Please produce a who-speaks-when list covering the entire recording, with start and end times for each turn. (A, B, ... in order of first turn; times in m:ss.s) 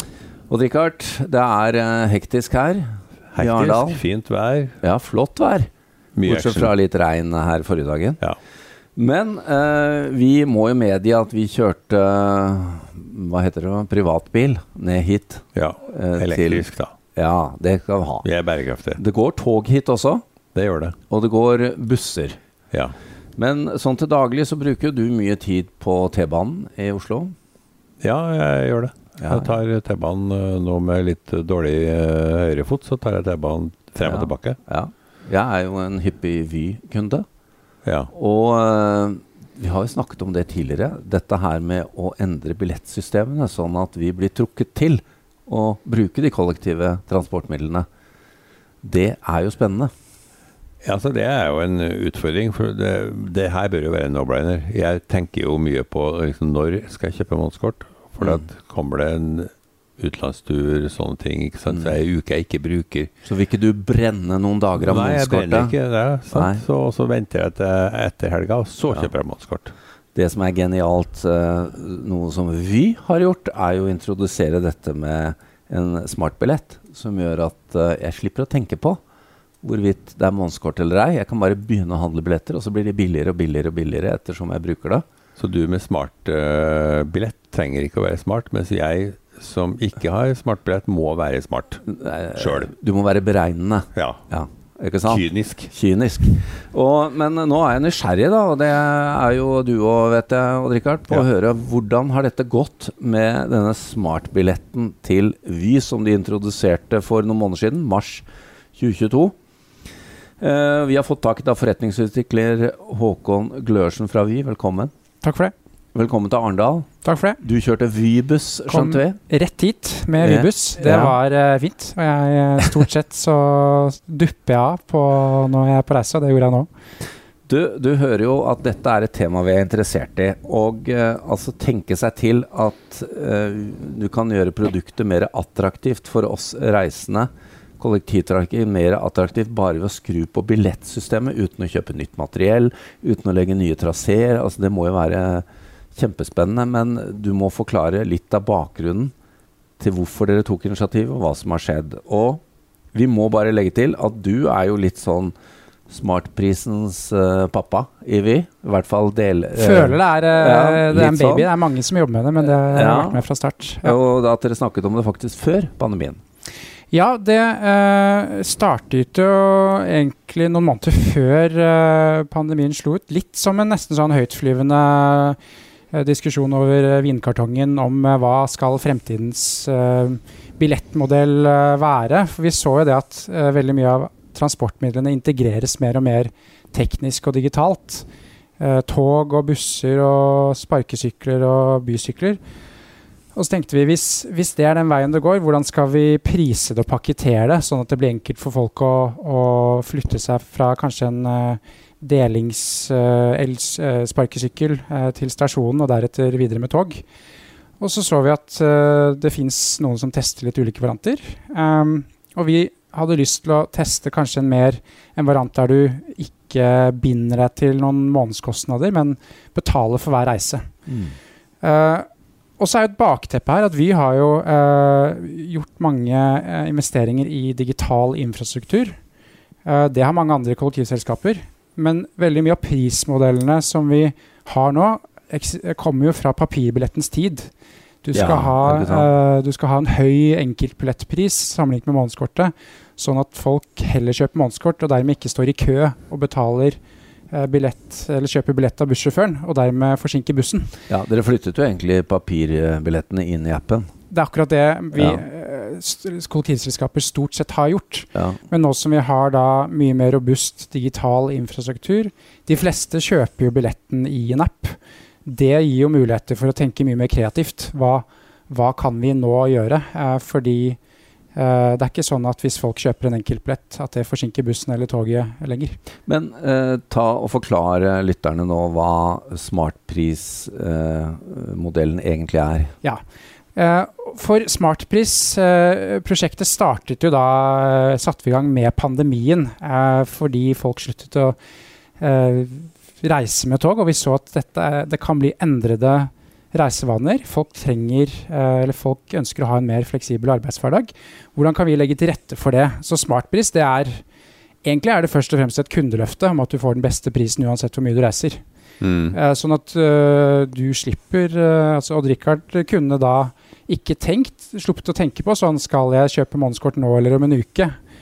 0:00.5-0:04.0 A
0:03.3-0:04.8 B
0:04.8-0:05.7 A
0:06.2-0:06.7 B
0:06.2-0:08.2 A
0:09.0-0:18.2 A
0:15.6-0:16.9 B
0:18.2-0:19.0 B
0:19.0-0:20.2 A
0:20.5-0:21.0 B
0:21.1-0:22.4 A
0:23.4-0:27.3 A
0:28.0-0:34.6 B
0:29.2-0:29.6 A
0:34.0-0:37.2 A
0:37.8-0:38.1 B
0:38.1-0:47.8 A
0:48.8-0:49.9 A
0:50.8-1:03.1 B
0:58.2-0:58.4 A
1:01.7-1:02.0 A
1:03.2-1:05.8 A
1:04.8-1:09.7 B
1:06.3-1:06.6 A
1:10.1-1:19.0 A
1:19.6-1:25.0 A
1:25.4-1:31.8 B
1:31.9-1:48.2 A
1:32.4-1:32.7 B
1:33.9-1:34.2 B
1:35.0-1:35.7 B
1:48.8-1:49.3 A
1:50.4-1:54.9 A
1:55.2-1:55.5 C
1:55.9-1:56.9 A
1:57.0-1:57.4 C
1:57.4-1:59.2 A
1:58.7-2:06.7 C
2:00.2-2:01.2 A
2:07.5-2:29.1 A
2:29.8-2:32.4 A
2:32.9-2:35.3 A
2:35.9-2:41.5 A
2:39.5-2:44.0 C
2:42.4-2:43.2 A
2:43.8-2:46.2 A
2:46.9-2:55.4 C
2:55.9-3:08.1 C
3:08.6-3:12.4 C
3:13.3-3:27.0 C
3:27.8-3:40.7 C
3:40.9-3:41.2 A
3:41.6-3:42.0 C
3:42.6-3:49.0 C
3:49.6-3:57.5 C
3:58.0-4:06.8 C
3:58.1-3:59.1 A
4:07.3-4:10.8 C
4:10.9-4:13.9 A
4:14.1-4:30.8 C
4:14.9-4:15.2 A
4:18.1-4:18.4 A
4:31.3-4:35.8 C
4:36.0-4:42.7 A
4:43.5-4:51.4 C
4:52.0-5:04.0 C
5:04.6-5:08.4 C
5:08.8-5:09.2 B
5:09.1-5:17.8 C